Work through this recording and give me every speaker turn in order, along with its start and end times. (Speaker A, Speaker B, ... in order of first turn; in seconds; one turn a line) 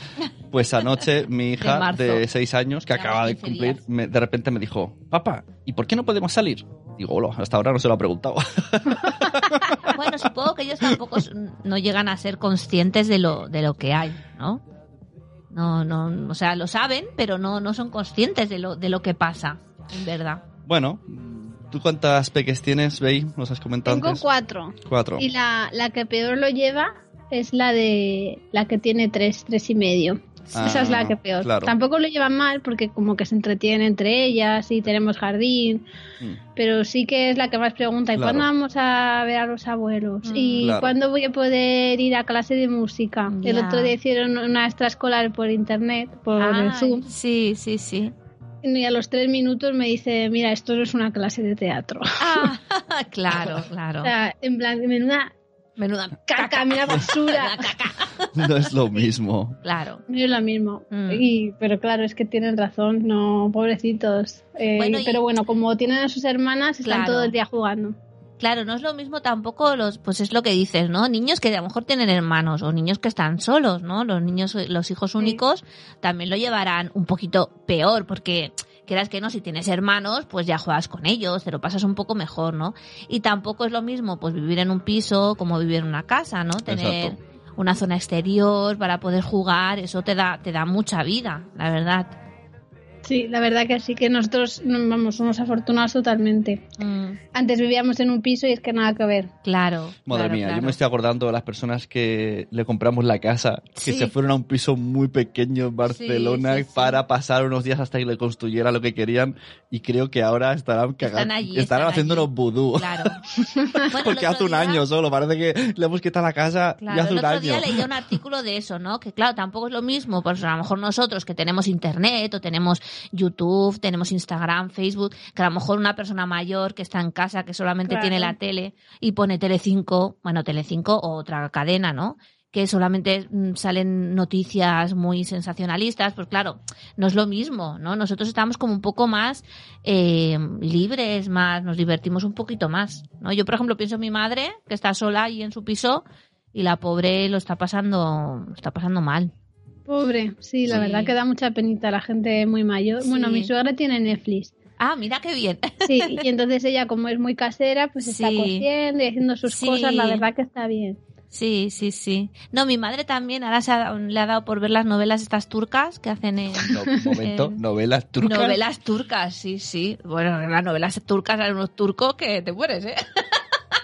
Speaker A: 0.5-10.1
Speaker B: 1.6-2.2
Speaker B: 2.9-3.8
Speaker B: 9.8-14.6
Speaker B: 15.5-20.4
Speaker A: 20.6-24.2
Speaker C: 23.9-35.8
Speaker A: 24.8-25.3
Speaker A: 30.5-31.7
Speaker C: 36.5-47.0
Speaker A: 38.1-38.5
Speaker B: 40.2-40.7
Speaker A: 40.6-41.0
Speaker B: 43.3-44.0
Speaker B: 46.4-48.1
Speaker C: 48.6-52.5
Speaker B: 52.2-54.1
Speaker C: 54.0-55.3
Speaker B: 55.8-58.5
Speaker C: 56.3-57.6
Speaker A: 58.3-59.6
Speaker B: 59.6-60.0
Speaker C: 60.1-68.0
Speaker B: 60.9-61.2
Speaker B: 64.7-65.2
Speaker B: 66.8-67.3
Speaker B: 68.4-92.2
Speaker A: 86.7-87.2
Speaker C: 93.0-96.6
Speaker B: 96.8-97.2
Speaker C: 97.3-99.3
Speaker B: 99.4-100.8
Speaker A: 100.0-117.8
Speaker B: 103.8-104.1
Speaker B: 105.8-107.0
Speaker B: 111.0-113.2
Speaker B: 113.9-114.8
Speaker B: 116.8-149.3
Speaker C: 127.9-128.3
Speaker C: 149.9-154.5
Speaker B: 150.7-151.1
Speaker B: 153.0-153.5
Speaker B: 154.8-156.2
Speaker C: 155.8-161.0
Speaker B: 158.0-158.7
Speaker B: 159.4-160.2
Speaker B: 161.3-167.6
Speaker A: 166.7-168.6
Speaker B: 168.2-173.4